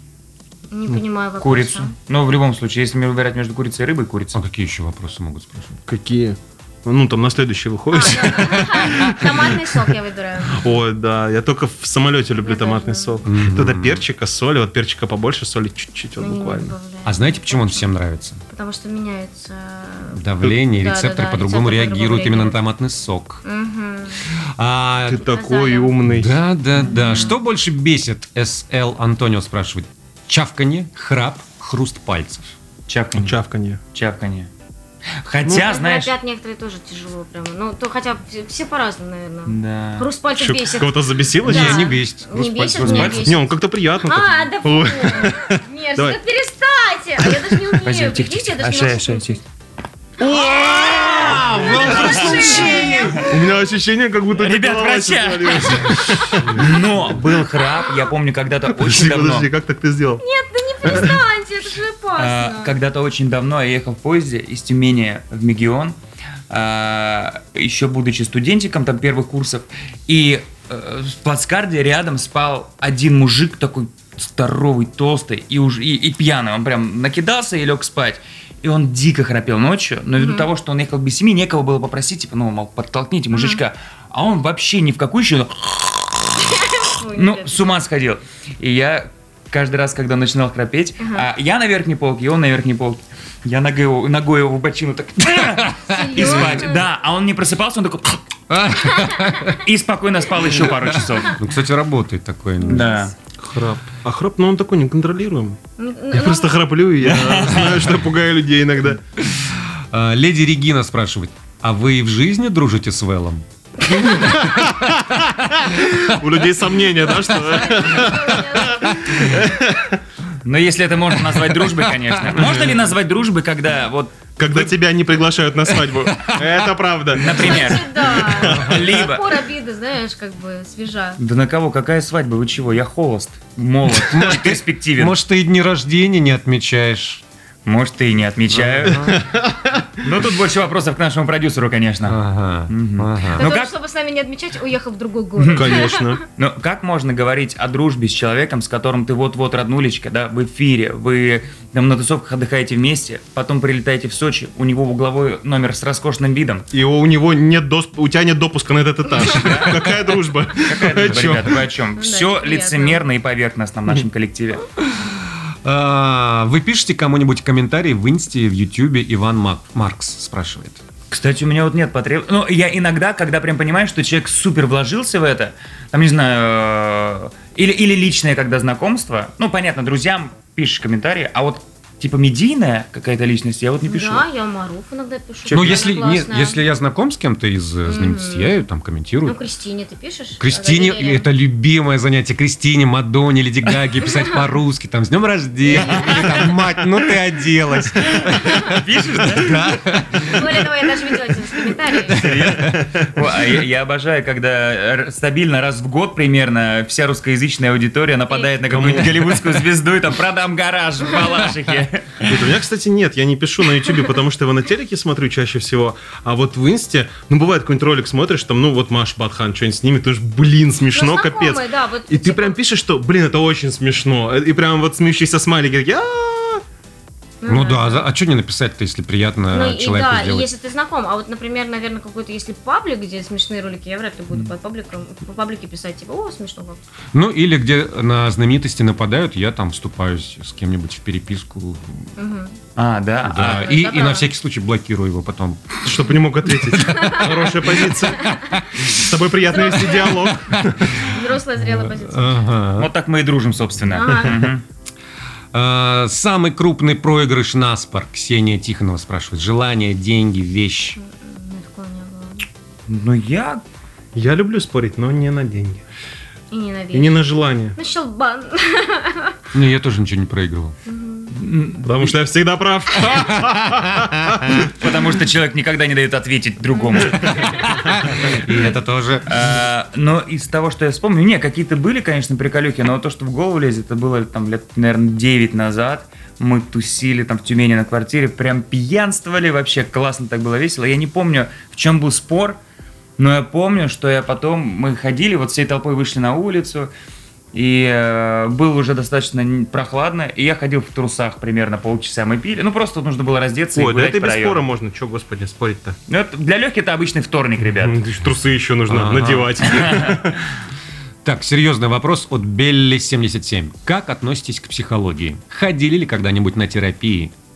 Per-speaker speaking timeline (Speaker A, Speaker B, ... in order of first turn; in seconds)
Speaker A: 0.7-1.9, 7.9-10.7, 12.4-13.2, 16.2-17.9, 18.5-22.6, 23.4-24.3, 25.2-25.9, 35.5-43.5, 44.0-49.4, 50.4-53.3, 60.2-62.7, 80.2-80.5, 83.3-83.6, 86.4-87.6, 91.0-91.2, 95.8-96.8, 102.6-103.1, 105.8-106.5, 114.0-114.4, 117.3-119.5, 127.2-131.2, 143.3-146.2, 162.0-163.0, 183.8-186.6, 187.8-188.6, 189.2-191.3, 195.7-196.5, 200.3-202.2, 220.9-222.6, 227.4-228.1, 229.5-236.8, 242.2-242.6, 243.4-244.3, 246.8-247.3, 249.4-250.3, 251.0-252.4, 253.8-254.3, 260.9-262.4, 266.5-267.2, 267.7-269.4, 270.9-271.3, 276.8-277.7
Speaker B: 1.4-4.4, 26.7-27.4, 32.9-33.4, 33.9-34.5, 35.2-36.1, 39.5-40.1, 42.8-43.3, 47.8-49.4, 51.8-53.4, 54.3-59.5, 62.1-66.0, 66.5-86.6, 87.1-98.2, 99.6-101.4, 102.7-103.1, 107.0-107.9, 120.4-124.1, 127.1-129.4, 131.2-135.2, 137.7-139.2, 140.0-143.7, 145.4-156.7, 159.2-159.8, 160.6-164.6, 171.1-184.2, 185.5-185.9, 195.9-196.3, 198.6-199.6, 202.1-212.3, 242.8-243.8, 252.8-254.6, 262.9-263.6, 271.3-272.1, 274.7-278.3, 279.3-292.6, 293.2-296.9, 297.5-304.6, 306.1-308.0, 309.7-310.2
Speaker C: 4.3-5.8, 13.2-14.0, 17.0-18.4, 20.1-23.4, 24.2-25.3, 26.1-32.5, 41.4-43.2, 50.2-53.2, 96.0-96.6, 98.5-99.6, 100.5-102.9, 109.5-114.7, 125.7-126.7, 133.9-137.2, 138.6-139.2, 142.0-143.5, 160.9-161.6, 164.9-170.8, 185.5-189.4, 190.4-200.7, 202.2-202.8, 227.4-230.5, 237.1-242.1, 243.2-245.8, 246.6-248.9, 250.3-250.9, 251.6-252.9, 255.5-261.0, 269.5-270.8, 273.0-274.7, 277.4-279.5, 308.9-309.6, 311.2-317.3
Speaker D: 5.9-9.9, 10.5-16.7, 25.1-26.4, 33.1-33.8, 40.3-41.9, 43.1-46.2, 51.2-52.5, 53.2-57.4, 58.7-60.2, 60.9-61.1, 103.4-105.6, 106.1-109.0, 114.2-120.0, 122.3-122.8, 124.4-128.9, 138.9-139.8, 145.5-146.2, 156.7-161.5, 202.5-203.0, 208.7-209.5, 212.2-226.6, 245.8-251.1, 264.1-265.8, 266.9-267.8, 271.8-274.6, 303.8-305.9, 307.8-310.4